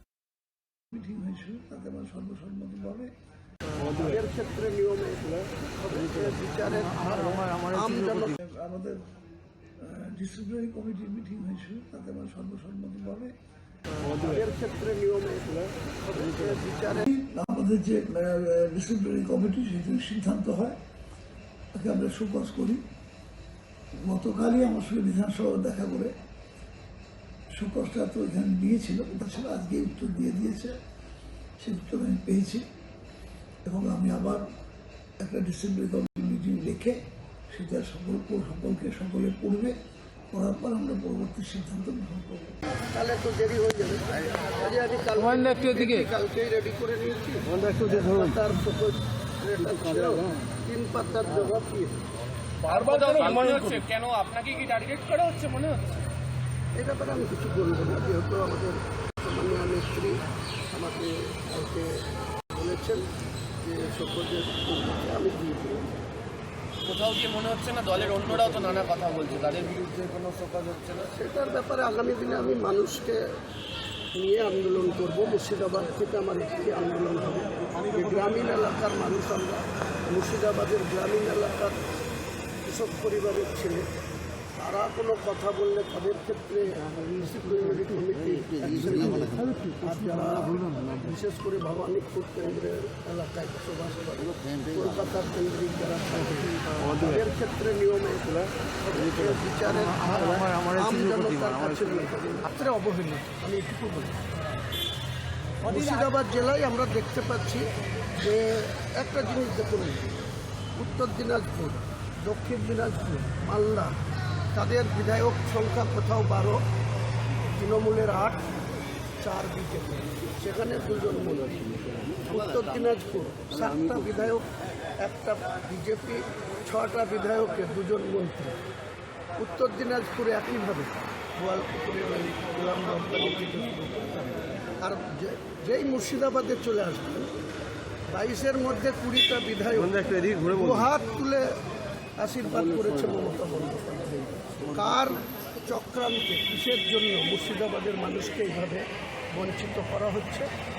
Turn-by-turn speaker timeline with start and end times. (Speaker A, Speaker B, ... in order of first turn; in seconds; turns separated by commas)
Speaker A: 0.9-3.1, Speaker B: 3.8-8.4, Speaker A: 8.3-9.1, Speaker A: 9.8-13.3, Speaker B: 14.0-17.0, Speaker A: 17.0-20.8, Speaker A: 21.7-22.8, Speaker A: 24.1-26.1, Speaker A: 27.5-30.7, Speaker A: 31.6-32.7, Speaker A: 33.6-34.5, Speaker A: 35.2-37.0, Speaker A: 37.5-39.8, Speaker A: 40.3-42.6, Speaker B: 42.8-52.0, Speaker C: 52.6-55.9, Speaker B: 52.7-53.7, Speaker B: 56.7-63.1, Speaker B: 63.6-65.9, Speaker C: 66.8-71.1, Speaker B: 71.1-73.2, Speaker B: 74.1-81.8, Speaker B: 82.7-83.9, Speaker B: 84.5-104.2, Speaker B: 105.6-110.2, Speaker B: 110.8-114.0, Speaker B: 114.5-116.7, Speaker B: 117.5-118.5, Speaker B: 119.2-128.6, Speaker B: 129.4-137.3, Speaker B: 138.1-141.6, Speaker B: 142.2-150.5